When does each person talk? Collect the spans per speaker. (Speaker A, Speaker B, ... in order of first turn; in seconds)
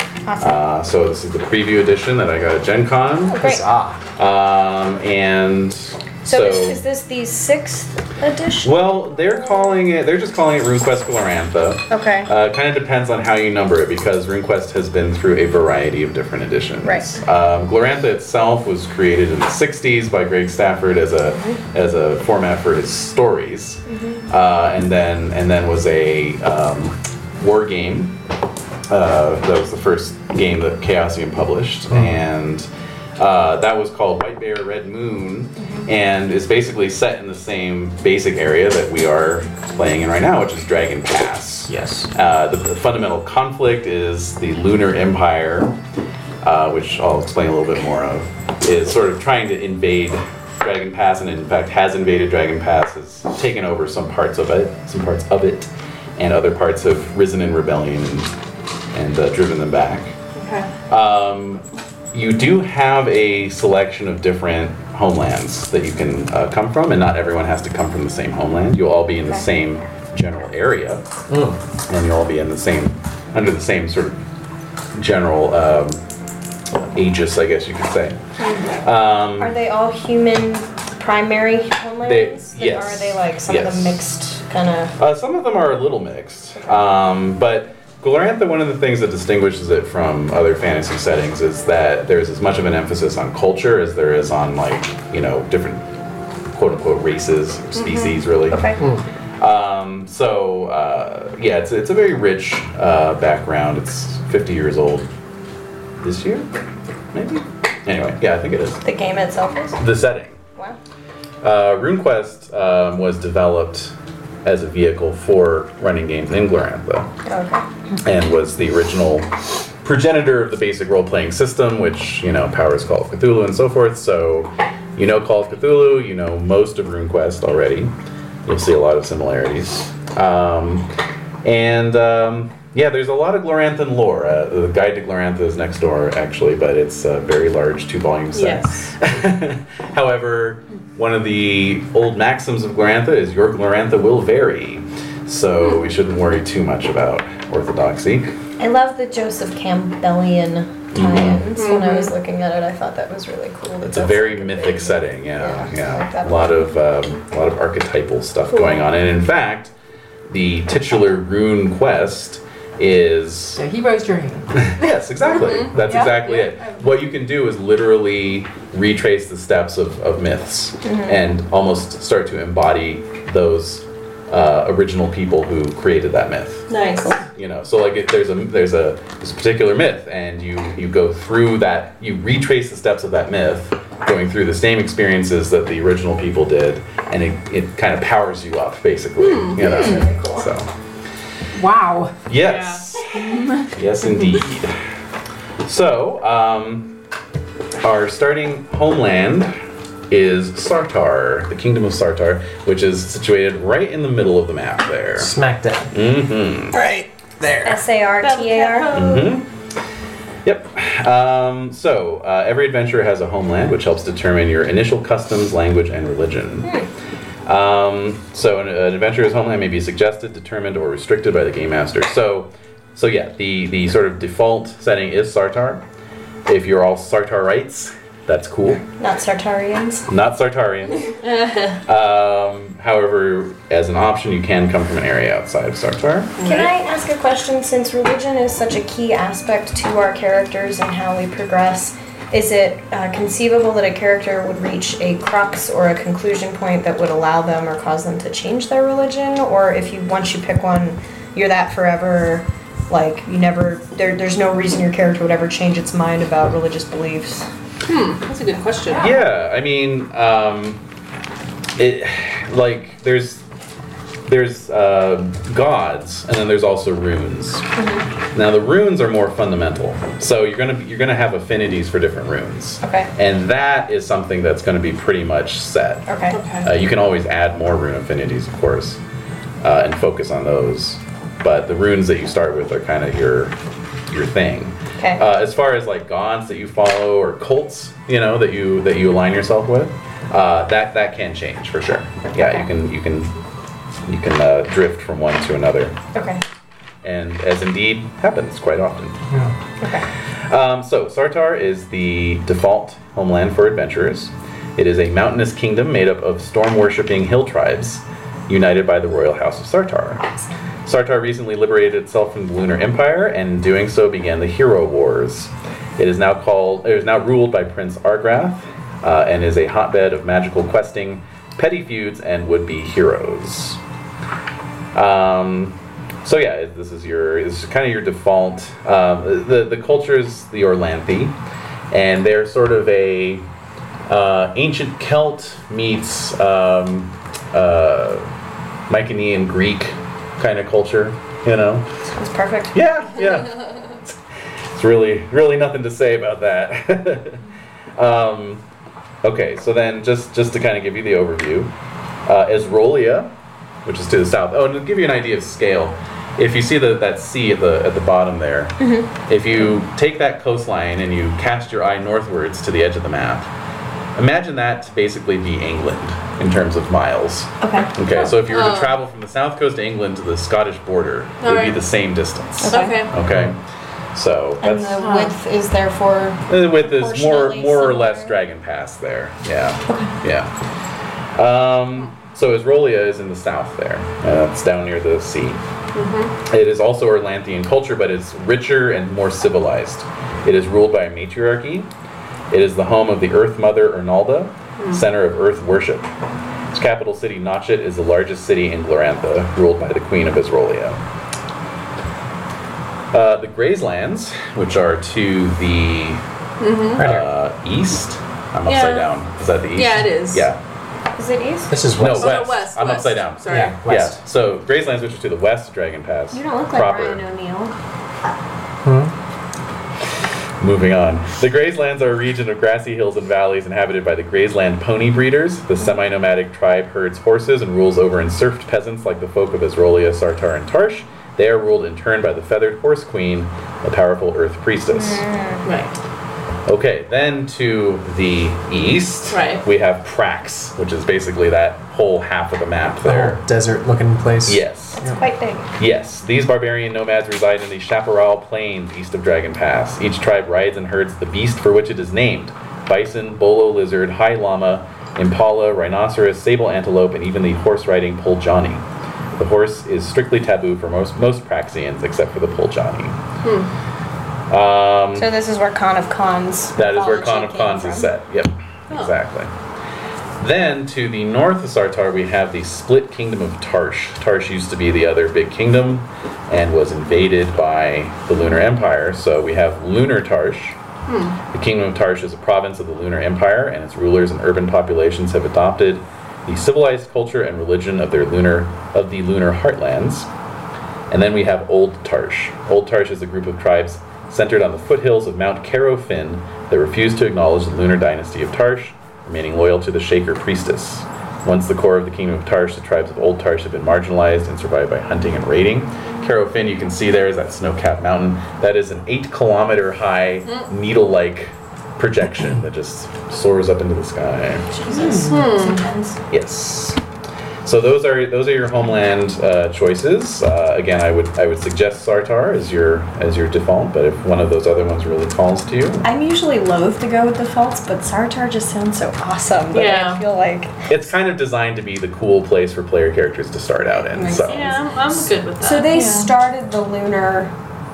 Speaker A: 0.3-0.6, 3.3-3.6, 6.2-8.8, 9.4-9.7, 11.9-12.3, 16.8-17.2, 23.9-24.2, 35.6-35.9, 79.4-85.0, 98.5-98.8, 108.8-109.8, 117.2-117.7, 148.6-156.7, 170.8-171.2, 176.7-177.2, 189.6-190.5, 207.6-209.2, 216.6-216.9, 229.0-230.1, 236.4-257.5, 258.9-259.2, 267.8-268.1, 272.8-273.1, 276.1-276.4, 296.1-296.4, 299.8-300.1, 342.1-342.8, 358.8-359.1, 367.6-367.9, 372.6-373.1, 374.6-378.4, 379.9-380.1, 411.1-411.7, 416.3-417.8, 434.9-435.6, 445.0-445.7, 465.2-468.1, 514.7-516.2, 526.0-530.8, 534.0-534.8, 535.6-537.5
Speaker B: 0.4-3.4, 4.2-6.8, 8.6-28.1, 28.9-45.8, 46.4-58.3, 58.9-60.1, 60.9-71.0, 71.9-74.2, 75.0-76.0, 76.9-78.2, 78.8-79.5, 82.0-84.0, 85.0-95.9, 96.5-98.8, 99.4-105.1, 106.0-106.5, 107.1-108.8, 109.8-110.4, 111.4-117.1, 118.0-119.3, 119.8-127.9, 128.5-130.9, 131.4-148.3, 150.9-151.4, 153.9-159.7, 160.3-163.6, 164.5-176.7, 177.3-190.7, 192.3-194.8, 195.6-197.0, 197.8-199.5, 200.1-205.3, 205.9-206.8, 208.9-209.5, 210.4-216.7, 217.5-225.8, 226.5-228.8, 230.1-231.1, 231.8-236.4, 258.9-260.8, 261.8-263.4, 264.3-267.7, 268.3-276.1, 276.6-279.0, 279.6-283.6, 284.1-293.3, 294.1-296.0, 297.0-299.2, 300.5-310.2, 310.9-323.8, 324.9-331.4, 331.9-333.4, 334.1-338.3, 338.9-341.9, 342.7-344.2, 344.7-347.4, 348.0-348.6, 349.2-351.7, 352.3-353.3, 353.9-363.5, 364.2-373.6, 374.1-375.1, 376.5-380.5, 381.4-385.6, 386.5-391.9, 392.5-396.1, 396.7-401.0, 403.1-406.2, 407.0-410.6, 412.0-417.2, 420.6-435.2, 436.7-443.4, 444.5-445.0, 445.8-458.8, 459.4-463.2, 464.5-465.3, 466.8-469.5, 470.4-480.8, 481.5-490.3, 491.1-514.7, 516.3-517.0, 517.6-526.0, 530.9-534.8
Speaker C: 3.4-4.0, 31.9-32.2, 41.7-42.1, 71.3-71.6, 205.2-205.9, 206.7-207.8, 407.0-407.3, 411.7-412.4, 413.5-414.2, 418.8-419.1, 443.0-445.2
Speaker D: 60.4-60.7, 97.8-98.2, 138.3-138.9, 151.6-152.1, 158.5-158.9, 165.3-165.7, 176.7-177.1, 189.2-190.1, 192.3-192.9, 208.2-209.3, 231.2-231.8, 236.4-236.7, 257.9-259.1, 276.3-276.7, 368.2-369.0, 371.4-371.8, 372.7-373.1, 375.0-375.4, 385.9-386.3, 406.6-407.1, 408.7-409.1, 409.8-410.5, 412.2-413.8, 435.6-435.9, 439.3-439.6, 463.4-463.7, 481.1-481.4, 514.9-515.8, 529.7-530.2, 534.5-536.3
Speaker E: 163.6-164.8, 165.8-166.8, 191.5-192.2, 193.2-193.7